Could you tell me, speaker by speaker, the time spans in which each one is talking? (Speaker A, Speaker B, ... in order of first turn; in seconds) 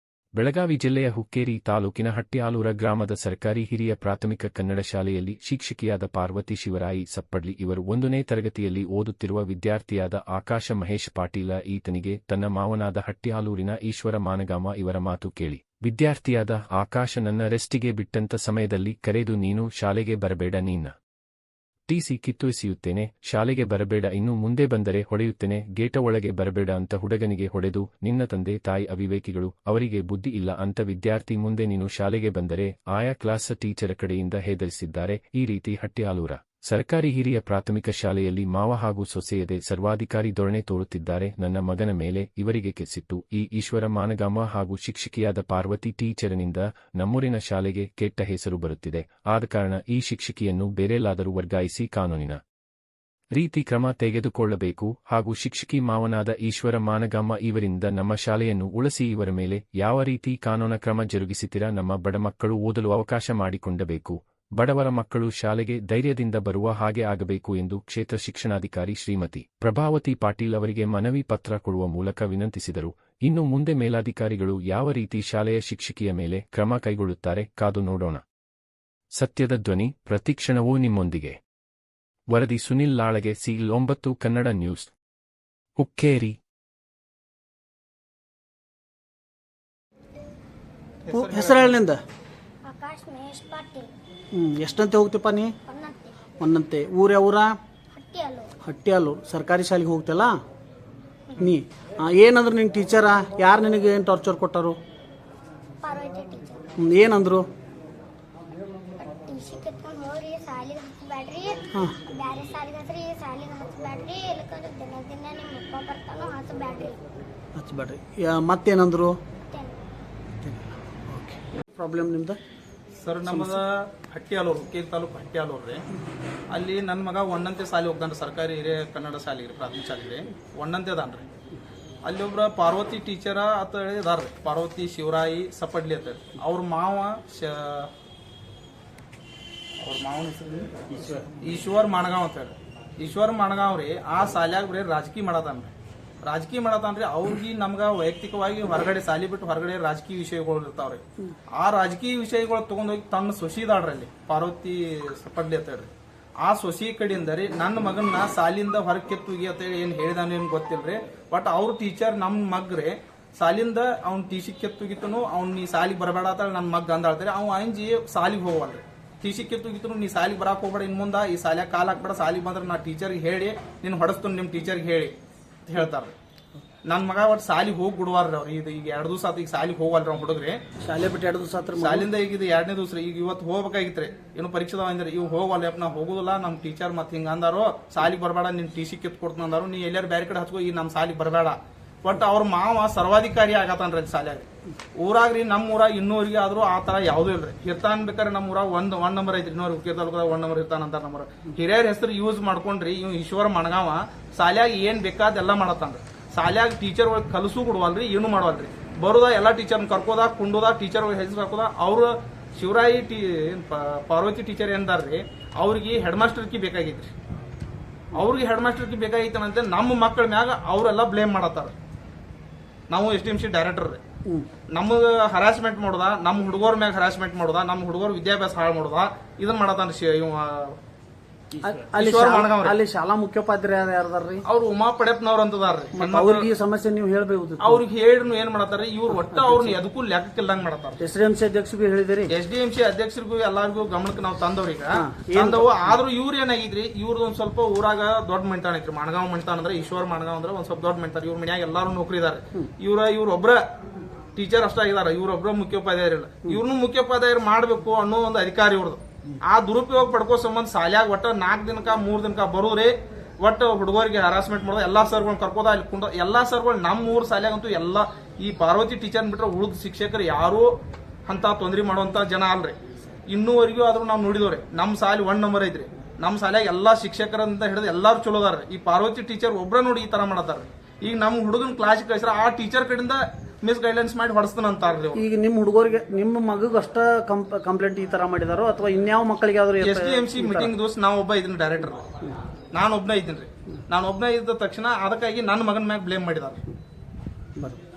Speaker A: 0.3-20.9, 21.9-52.4, 53.3-78.2, 79.2-81.4, 82.3-84.9, 85.8-86.4
Speaker B: 91.1-91.7, 123.0-125.8, 126.5-131.3, 132.1-137.9, 139.8-145.7, 146.3-151.0, 151.6-155.9, 156.4-175.1, 175.7-176.1, 176.9-180.6, 181.8-217.1, 218.2-221.7, 222.9-224.0, 224.7-230.8, 231.9-232.7, 234.5-236.5, 237.6-241.0, 242.3-253.6, 254.4-270.7, 271.3-285.2, 289.8-292.0, 292.7-296.6
Speaker C: 91.1-92.0, 94.3-95.5, 96.4-97.5, 98.7-100.3, 101.4-104.8, 106.8-107.4, 117.6-119.2, 120.4-122.4, 123.3-123.6, 180.8-182.1, 231.6-234.4, 235.9-237.8, 239.1-239.8, 241.0-242.3, 244.9-245.9, 285.1-290.7
Speaker D: 92.7-93.9, 95.7-96.2, 97.9-98.5, 105.8-106.7, 109.0-117.0, 119.5-119.8